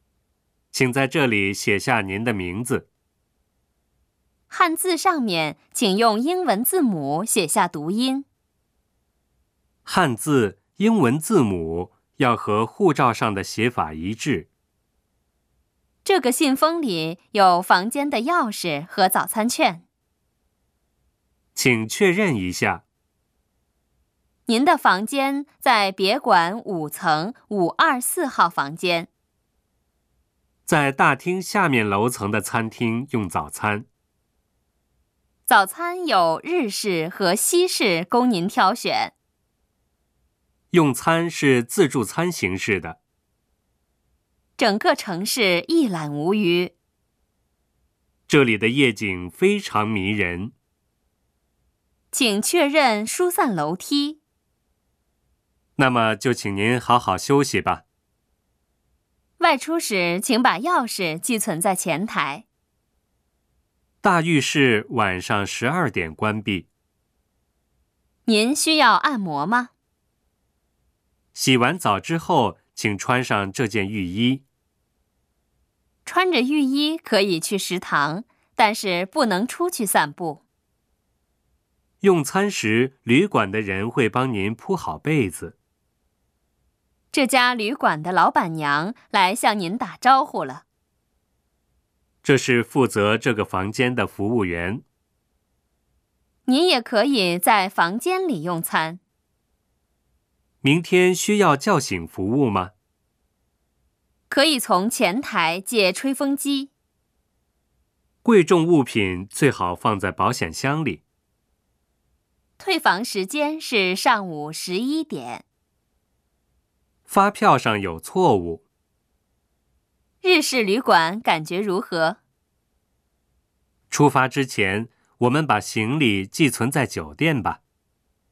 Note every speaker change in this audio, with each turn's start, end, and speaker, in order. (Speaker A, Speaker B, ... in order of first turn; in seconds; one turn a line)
Speaker A: 0.7-2.9
Speaker B: 4.5-8.2
Speaker A: 9.8-14.5
Speaker B: 16.0-19.8
Speaker A: 21.5-22.8
Speaker B: 24.5-29.1
Speaker A: 30.6-33.9
Speaker B: 35.5-39.1
Speaker A: 40.7-43.0
Speaker B: 44.6-46.7
Speaker A: 48.3-50.5
Speaker B: 52.1-54.2
Speaker A: 55.8-57.8
Speaker B: 59.4-62.4
Speaker A: 64.0-66.7
Speaker B: 68.2-69.7
Speaker A: 71.3-74.4
Speaker B: 76.0-80.4
Speaker A: 82.0-85.5
Speaker B: 87.1-90.6
Speaker A: 92.2-94.8
Speaker B: 96.5-99.0
Speaker A: 100.6-102.7
Speaker B: 104.3-106.7
Speaker A: 108.2-111.0
Speaker B: 112.6-115.4
Speaker A: 117.1-118.6
Speaker B: 120.2-122.2
Speaker A: 123.9-127.6